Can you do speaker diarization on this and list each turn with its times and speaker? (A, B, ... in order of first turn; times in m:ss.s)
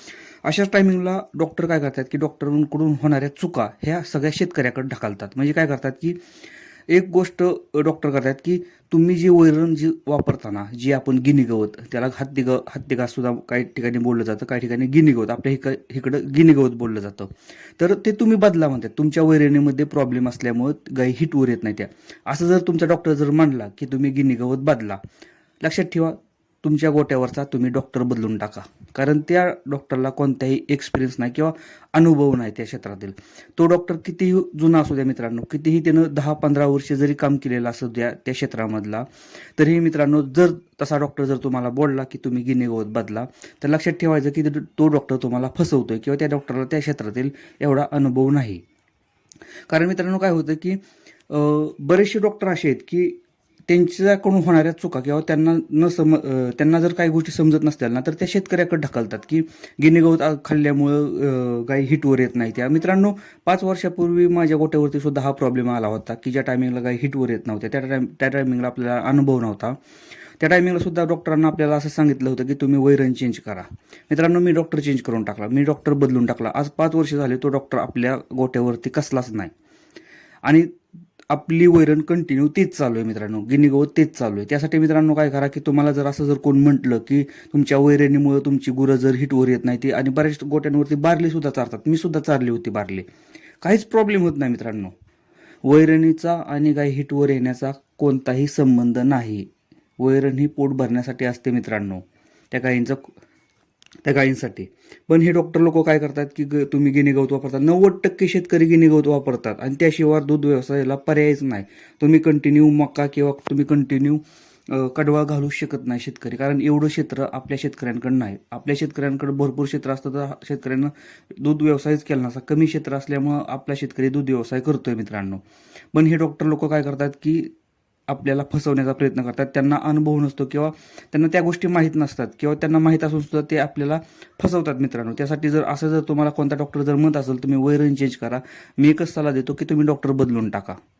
0:00.4-0:06.2 A
0:06.9-0:25.0 A
0:25.6-0:48.6 A
0:49.7-1:09.8 A
1:10.4-1:19.5 A
1:20.4-1:20.7 A
1:21.3-1:33.0 A
1:33.6-1:34.9 A
1:35.6-1:43.1 A
1:44.0-2:05.4 A
2:05.9-2:07.5 A
2:08.1-2:20.8 A